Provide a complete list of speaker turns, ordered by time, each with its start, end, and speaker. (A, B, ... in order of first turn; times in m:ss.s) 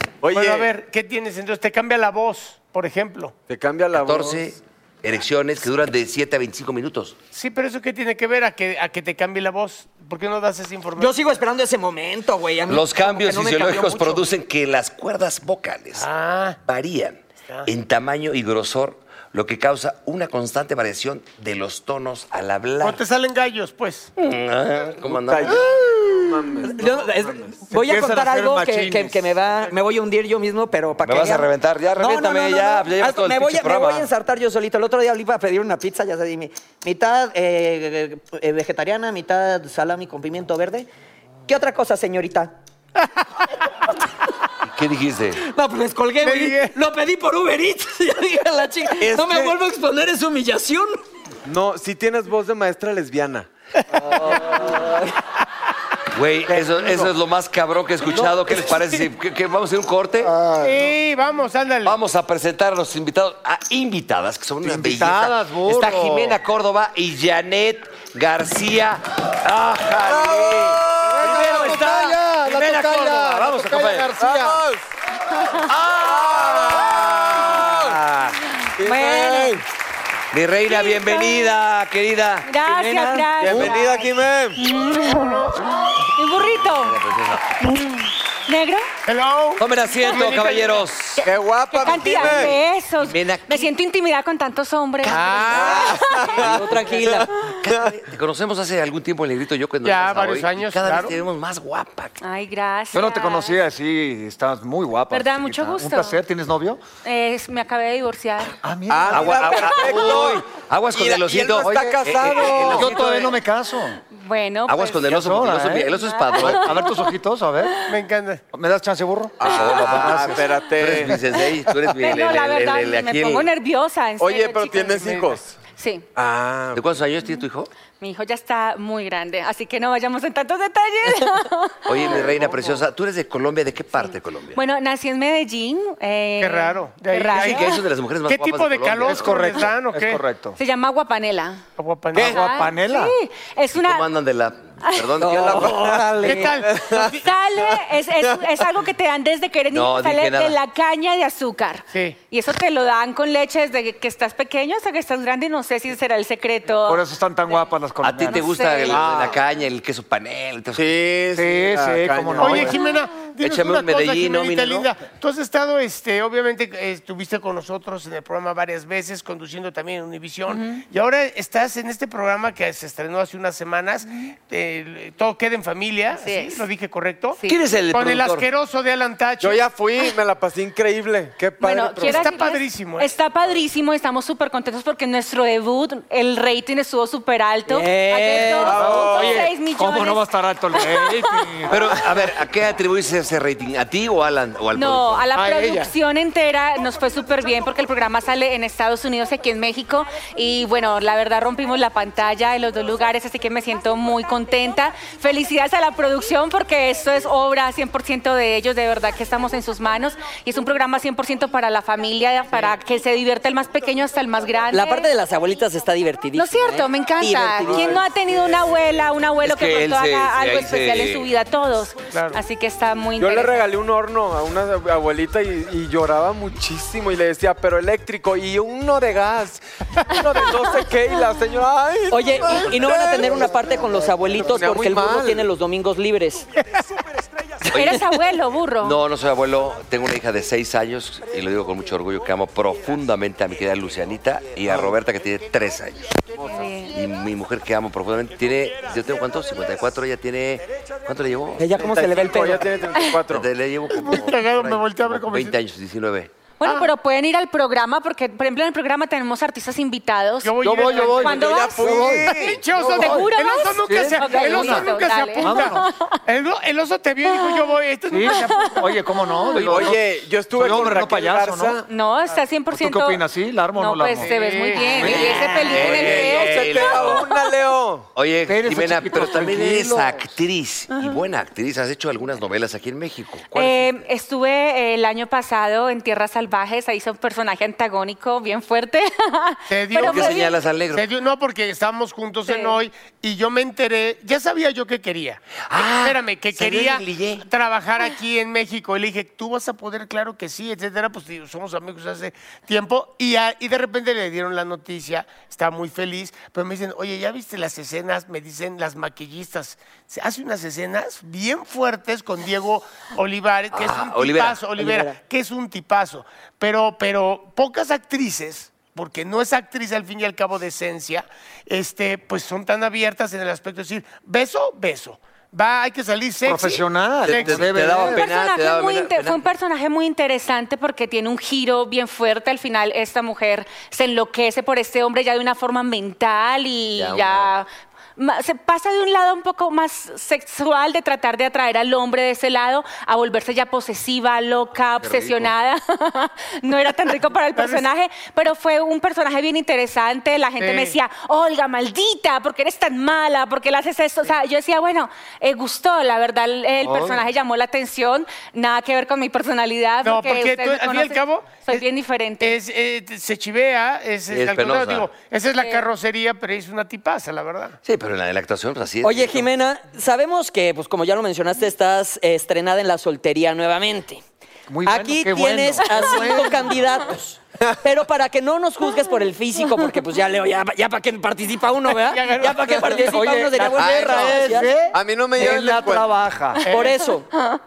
0:00.2-0:00.7 A
0:00.3-0:03.3 B
0:03.5-0:04.4 A
0:03.9-0:07.2 C
0:07.3-0:11.2 B
0:11.0-0:14.2 D
0:12.7-0:16.1 C
0:16.0-0:16.6 B
0:16.6-0:23.0 C
0:22.8-0:24.1 B
0:24.2-0:25.6 C
0:25.1-0:27.5 A
0:25.5-0:26.4 E
0:26.6-0:40.9 D
0:27.7-0:29.4 E
0:31.0-0:34.1 C
0:41.5-0:42.6 D
0:44.7-0:45.4 C
0:45.4-0:51.0 D
0:46.2-0:46.7 B
0:49.0-0:49.5 A
0:51.4-0:53.5 A
0:54.0-0:55.0 D
0:56.1-1:00.3 C
0:56.5-0:57.1 A
1:00.2-1:00.9 E
1:00.6-1:02.0 B
1:01.8-1:12.2 C
1:04.6-1:06.4 E
1:09.9-1:11.9 A
1:11.0-1:14.6 E
1:11.3-1:11.8 B
1:12.4-1:13.5 B
1:13.6-1:14.1 C
1:14.2-1:14.8 A
1:15.4-1:15.7 F
1:16.0-1:18.0 A
1:16.0-1:17.2 E
1:17.7-1:18.4 C
1:18.8-1:19.6 A
1:18.8-1:19.6 F
1:20.3-1:22.5 C
1:20.7-1:21.5 F
1:22.4-1:25.4 F
1:22.6-1:23.3 D
1:23.4-1:24.6 A
1:23.4-1:23.9 C
1:26.1-1:27.0 F
1:26.6-1:27.5 C
1:27.8-1:28.9 F
1:29.0-1:30.8 B
1:29.6-1:31.2 C
1:31.2-1:36.4 F
1:31.2-1:32.6 A
1:32.2-1:33.7 C
1:35.0-1:36.0 B
1:35.1-1:37.9 A
1:36.4-1:37.3 D
1:37.6-1:42.2 C
1:39.8-1:41.2 B
1:42.2-1:43.6 F
1:42.9-1:46.8 E
1:45.1-1:46.2 F
1:47.0-1:48.5 F
1:48.6-1:50.1 E
1:48.9-1:53.3 A
1:49.1-1:53.2 C
1:51.6-1:54.0 E
1:54.1-1:55.0 F
1:54.7-1:56.8 C
1:55.1-1:57.8 E
1:56.0-1:57.1 F
1:57.9-1:58.4 B
1:58.5-2:00.4 E
1:59.4-2:01.2 A
1:59.4-2:03.5 C
2:02.0-2:05.2 F
2:04.2-2:05.6 A
2:05.7-2:06.0 F
2:06.1-2:06.8 A
2:06.7-2:07.7 C
2:08.0-2:12.2 F
2:11.9-2:14.6 C
2:12.1-2:12.8 A
2:14.5-2:17.8 F
2:16.4-2:17.8 B
2:17.3-2:19.3 C
2:18.3-2:20.2 B
2:19.1-2:20.6 E
2:20.6-2:21.6 F
2:21.8-2:22.4 B
2:22.1-2:23.1 E
2:22.2-2:24.1 F
2:23.8-2:25.9 C
2:25.2-2:26.6 D
2:25.2-2:27.1 A
2:26.2-2:27.2 B
2:27.0-2:37.7 F
2:29.7-2:30.6 C
2:36.8-2:39.4 E
2:38.0-2:40.9 C
2:38.2-2:39.0 F
2:40.7-2:42.7 A
2:41.3-2:42.8 E
2:42.4-2:57.4 B
2:43.4-2:44.9 C
2:50.5-2:50.8 F
2:56.1-2:56.6 F
2:57.4-2:58.5 C
2:57.9-2:59.6 B
2:59.4-3:02.3 A
3:01.6-3:11.6 F
3:02.0-3:03.1 B
3:07.7-3:08.8 D
3:08.5-3:09.5 A
3:08.7-3:12.3 E
3:11.7-3:15.3 C
3:14.7-3:35.1 F
3:15.3-3:15.9 E
3:34.7-3:38.0 D
3:36.3-3:43.7 F
3:37.6-3:38.0 A
3:39.4-3:41.3 C
3:42.1-3:42.4 B
3:43.2-3:53.7 A
3:52.1-3:56.5 D
3:54.3-3:55.5 A
3:57.7-3:58.0 C
3:57.7-3:59.0 F
3:58.8-4:06.2 C
4:06.4-4:07.0 F
4:06.9-4:11.6 C
4:11.6-4:12.7 D
4:11.8-4:13.5 A
4:13.3-4:16.3 C
4:13.9-4:15.6 B
4:16.6-4:26.2 F
4:16.6-4:16.9 B
4:20.4-4:21.4 B
4:20.6-4:22.4 E
4:21.0-4:23.0 A
4:22.2-4:28.8 B
4:23.8-4:25.8 E
4:27.3-4:29.8 F
4:28.1-4:31.8 E
4:29.6-4:31.8 A
4:31.9-4:33.2 F
4:32.7-4:35.4 E
4:33.7-4:37.0 F
4:34.2-4:35.2 B
4:35.0-4:37.3 C
4:35.1-4:38.1 A
4:38.1-4:44.0 C
4:38.4-4:40.2 E
4:43.5-4:50.5 F
4:49.7-5:27.6 B
4:50.0-4:51.0 C
4:52.5-4:52.8 F
4:55.7-4:57.4 C
5:13.7-5:14.6 C
5:14.8-5:15.2 D
5:26.4-5:28.2 E
5:27.2-5:29.5 C
5:28.0-6:02.6 F
5:37.0-5:37.5 C
5:45.0-5:45.5 C
5:47.5-5:47.8 B
5:50.6-5:51.0 B
5:56.8-5:57.2 E
6:00.0-6:01.8 B
6:02.4-6:07.8 B
6:04.3-6:05.1 C
6:05.6-6:05.9 F
6:07.8-6:09.5 C
6:09.0-6:14.2 D
6:14.7-6:16.8 E
6:14.8-6:24.7 D
6:15.9-6:16.4 F
6:22.0-6:23.0 B
6:22.8-6:26.6 E
6:23.8-6:26.2 A
6:26.6-6:27.0 B
6:26.7-6:27.3 D